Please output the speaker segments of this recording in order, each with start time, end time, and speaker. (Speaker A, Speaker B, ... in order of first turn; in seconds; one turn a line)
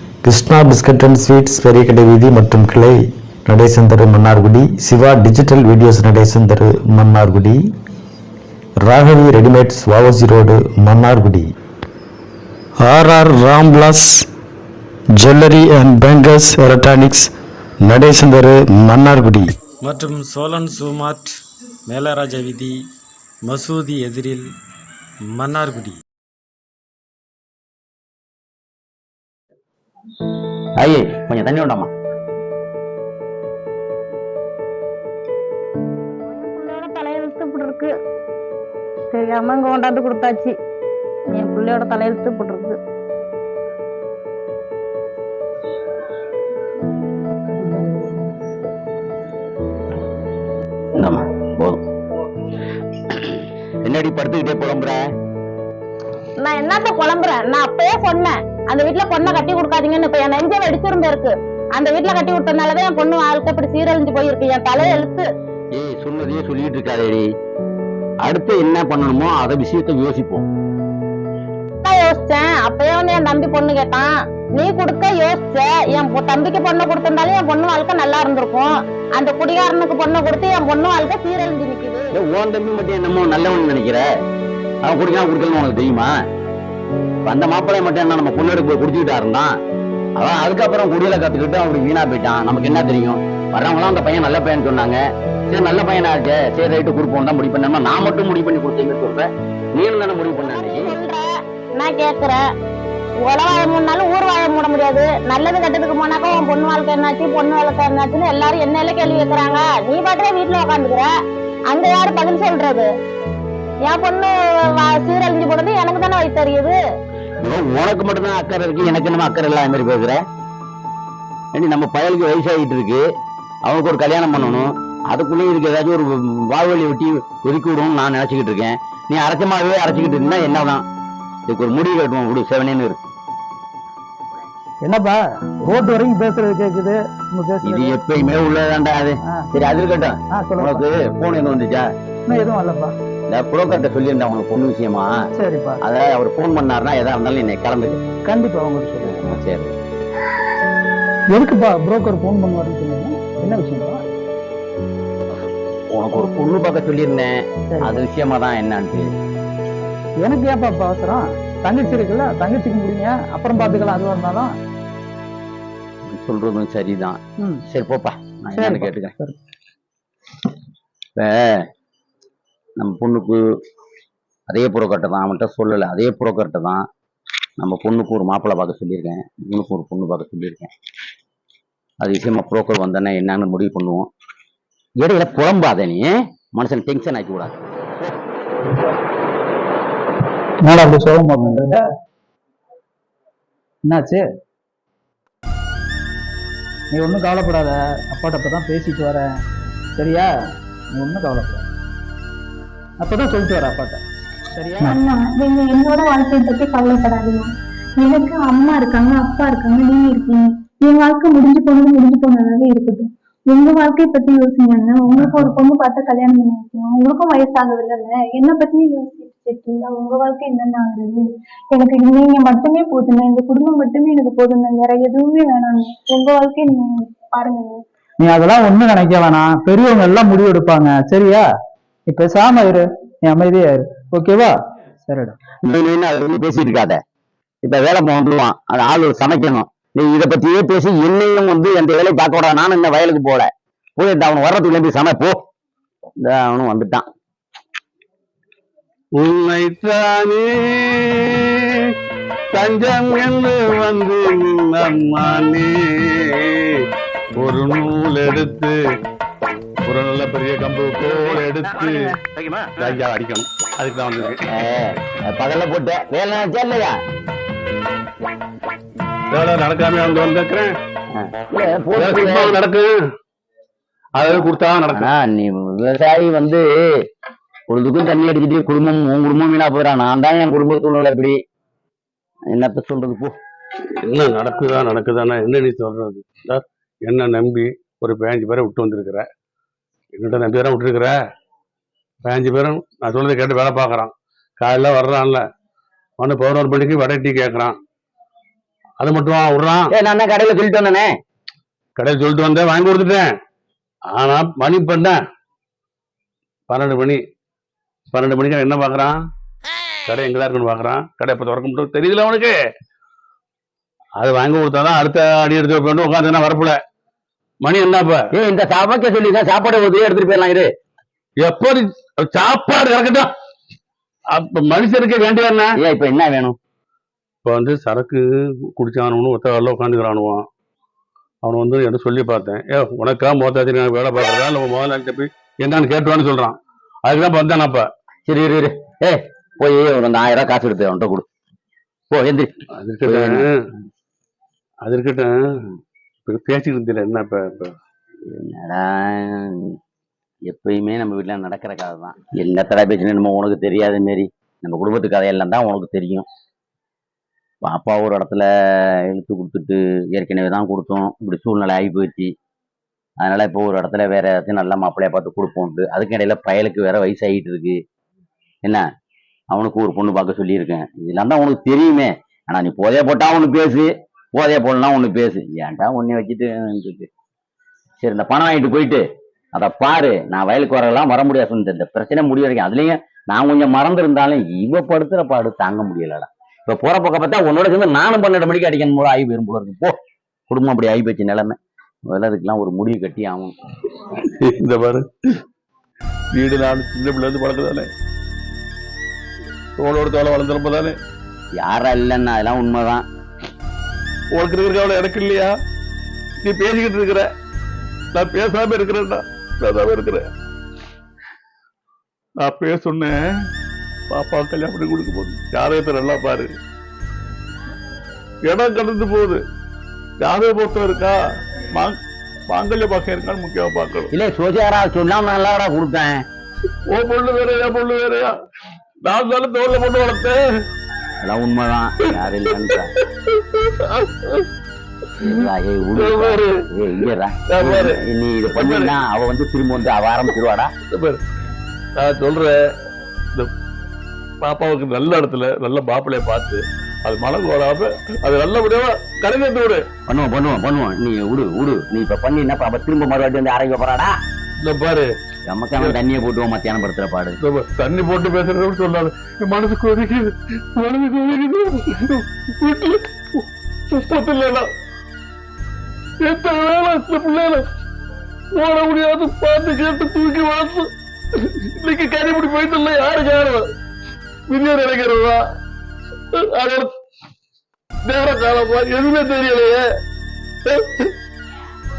Speaker A: 0.2-7.7
Speaker A: 8.8-11.5
Speaker A: 12.8-14.3
Speaker A: 15.2-17.3
Speaker A: 17.8-19.6
Speaker B: 19.8-22.9
Speaker B: 23.4-24.5
Speaker B: 25.2-26.0
Speaker C: 30.8-31.9
Speaker D: 36.2-37.9
Speaker D: 39.1-40.6
Speaker D: 41.3-42.8
Speaker C: 51.0-51.8
Speaker C: 53.1-55.0
Speaker D: 56.4-65.3
Speaker C: 65.7-67.2
Speaker C: 68.2-70.5
Speaker D: 71.8-82.1
Speaker C: 82.1-84.0
Speaker C: 84.8-86.1
Speaker C: 87.3-89.5
Speaker C: 90.2-101.0
Speaker D: 100.4-101.3
Speaker D: 101.8-102.4
Speaker D: 103.2-111.1
Speaker D: 111.7-112.9
Speaker D: 113.9-116.8
Speaker C: 117.4-120.2
Speaker C: 121.5-123.0
Speaker C: 123.7-130.8
Speaker C: 131.5-133.0
Speaker E: 134.8-138.0
Speaker C: 137.6-141.8
Speaker E: 139.3-139.6
Speaker E: 140.3-140.9
Speaker E: 142.3-142.9
Speaker C: 143.3-145.2
Speaker E: 145.4-145.8
Speaker C: 145.8-148.0
Speaker E: 148.2-149.3
Speaker C: 149.0-149.7
Speaker E: 151.3-154.0
Speaker C: 155.9-159.1
Speaker E: 157.7-158.0
Speaker E: 160.2-164.5
Speaker C: 166.1-169.1
Speaker E: 168.5-169.3
Speaker C: 171.2-171.6
Speaker C: 172.8-173.4
Speaker C: 174.5-176.8
Speaker C: 177.6-180.7
Speaker C: 182.0-184.1
Speaker C: 185.0-188.1
Speaker E: 190.6-191.8
Speaker E: 193.9-194.3
Speaker E: 196.9-199.3
Speaker E: 200.0-200.3
Speaker E: 200.9-201.7
Speaker E: 203.0-204.0
Speaker E: 204.5-205.0
Speaker F: 204.8-227.8
Speaker E: 215.2-215.5
Speaker E: 228.2-231.5
Speaker E: 232.1-235.4
Speaker C: 235.6-237.0
Speaker C: 237.6-245.4
Speaker C: 246.2-247.0
Speaker G: 249.2-251.4
Speaker G: 252.5-256.7
Speaker G: 257.4-258.8
Speaker G: 259.9-262.2
Speaker G: 262.8-264.4
Speaker C: 264.5-266.9
Speaker G: 269.3-270.8
Speaker C: 271.1-272.6
Speaker G: 271.9-272.9
Speaker G: 274.2-275.1
Speaker C: 274.2-276.6
Speaker C: 277.7-281.4
Speaker C: 282.5-283.4
Speaker G: 284.0-289.3
Speaker G: 290.1-291.1
Speaker G: 292.2-295.4
Speaker G: 296.2-297.8
Speaker G: 299.0-299.9
Speaker C: 299.9-301.1
Speaker G: 302.0-303.3
Speaker G: 304.1-305.2
Speaker G: 306.7-307.2
Speaker G: 308.1-309.1
Speaker G: 310.1-312.5
Speaker G: 314.2-316.8
Speaker G: 317.6-318.2
Speaker C: 318.3-320.7
Speaker G: 321.4-323.3
Speaker G: 324.3-325.8
Speaker C: 325.8-326.6
Speaker G: 327.4-328.2
Speaker G: 328.8-330.5
Speaker G: 331.4-337.9
Speaker C: 338.3-341.2
Speaker C: 342.1-343.5
Speaker G: 342.8-343.4
Speaker G: 344.9-345.3
Speaker G: 346.3-347.7
Speaker C: 348.3-349.8
Speaker C: 350.5-356.3
Speaker C: 357.6-358.5
Speaker C: 359.1-362.3
Speaker C: 363.2-367.8
Speaker C: 369.5-377.1
Speaker C: 378.0-379.0
Speaker C: 379.5-389.9
Speaker C: 390.5-391.6
Speaker C: 392.1-393.5
Speaker G: 394.2-395.4
Speaker G: 396.4-397.9
Speaker G: 399.8-401.0
Speaker C: 401.6-403.0
Speaker G: 404.3-405.5
Speaker G: 406.4-407.3
Speaker G: 408.1-410.2
Speaker G: 412.4-413.2
Speaker G: 414.1-416.5
Speaker G: 418.5-419.4
Speaker G: 420.2-422.0
Speaker G: 422.5-424.1
Speaker C: 424.1-426.2
Speaker G: 426.9-428.4
Speaker G: 429.0-430.4
Speaker C: 431.2-432.9
Speaker G: 433.3-434.5
Speaker C: 435.2-440.7
Speaker G: 435.2-436.6
Speaker G: 437.5-438.0
Speaker G: 438.5-438.9
Speaker G: 440.9-441.2
Speaker G: 442.0-442.5
Speaker G: 444.4-449.8
Speaker C: 450.1-454.1
Speaker G: 454.6-455.1
Speaker C: 455.5-457.4
Speaker G: 457.4-464.7
Speaker G: 466.2-467.7
Speaker G: 468.6-473.7
Speaker G: 474.5-475.4
Speaker G: 476.3-476.9
Speaker G: 478.0-479.8
Speaker G: 480.7-481.1